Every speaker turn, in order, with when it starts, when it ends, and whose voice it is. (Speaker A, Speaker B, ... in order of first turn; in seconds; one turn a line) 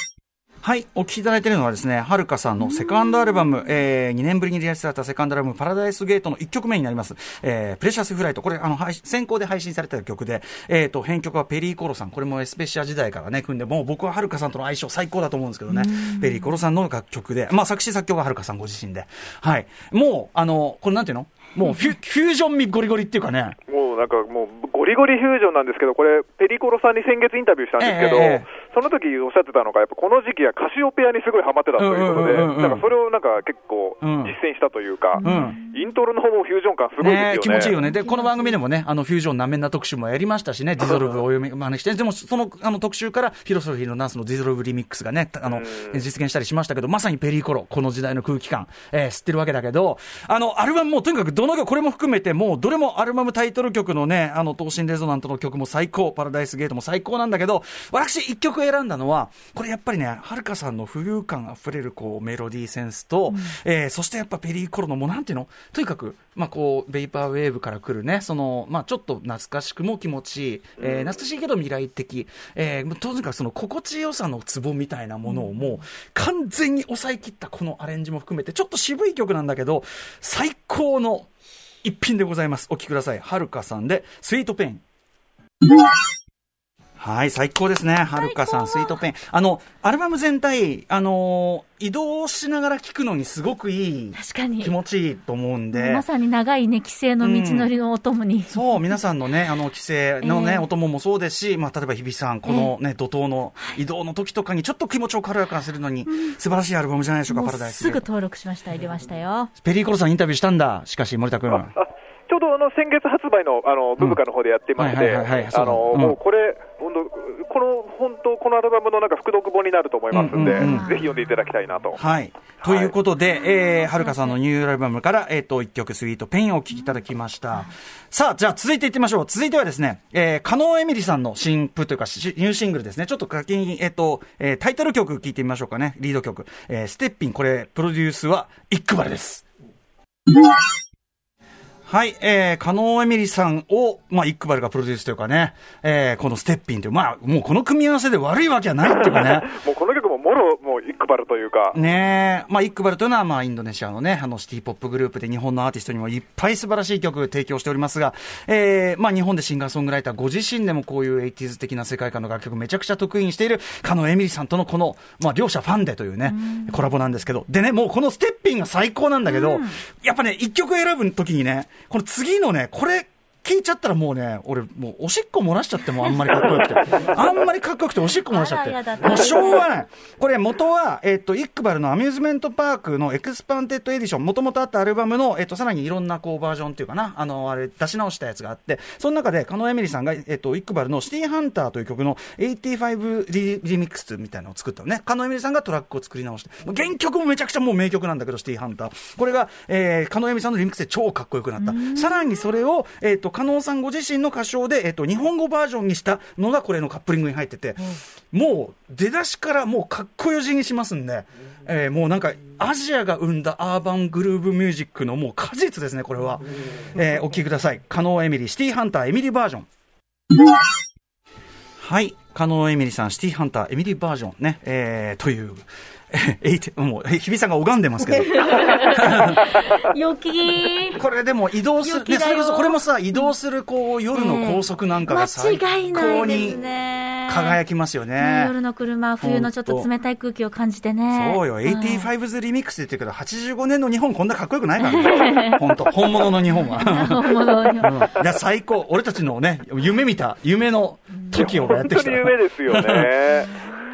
Speaker A: 0.6-23.6
Speaker B: 15.7-16.4
Speaker C: 23.7-37.8
Speaker A: 27.8-28.5
Speaker A: 31.8-32.9
Speaker A: 34.0-34.4
Speaker A: 35.2-35.6
Speaker B: 35.2-35.8
Speaker A: 37.0-81.3
Speaker B: 37.8-38.6
Speaker C: 40.8-41.2
Speaker C: 45.5-46.0
Speaker B: 63.3-63.6
Speaker C: 70.8-71.1
Speaker A: 81.8-84.8
Speaker A: 87.0-96.1
Speaker B: 88.2-89.0
Speaker B: 94.2-94.7
Speaker B: 95.7-98.6
Speaker A: 97.2-97.7
Speaker A: 98.5-108.1
Speaker B: 100.2-100.7
Speaker B: 102.5-102.7
Speaker B: 107.3-109.5
Speaker A: 109.6-111.7
Speaker C: 111.5-122.0
Speaker A: 114.8-116.2
Speaker A: 120.1-121.0
Speaker B: 120.4-121.0
Speaker A: 122.0-139.4
Speaker C: 122.6-123.0
Speaker B: 123.5-124.2
Speaker A: 141.9-149.5
Speaker C: 148.8-151.8
Speaker A: 151.7-219.7
Speaker B: 166.3-166.8
Speaker B: 169.3-169.8
Speaker B: 178.3-179.7
Speaker B: 201.6-202.2
Speaker A: 221.8-229.4
Speaker B: 228.2-231.0
Speaker A: 231.0-236.6
Speaker B: 231.8-233.3
Speaker B: 234.1-237.6
Speaker A: 237.3-238.6
Speaker B: 238.2-242.1
Speaker A: 239.2-239.9
Speaker A: 241.1-247.3
Speaker B: 244.8-245.7
Speaker B: 246.7-248.0
Speaker A: 247.8-253.1
Speaker C: 251.3-253.6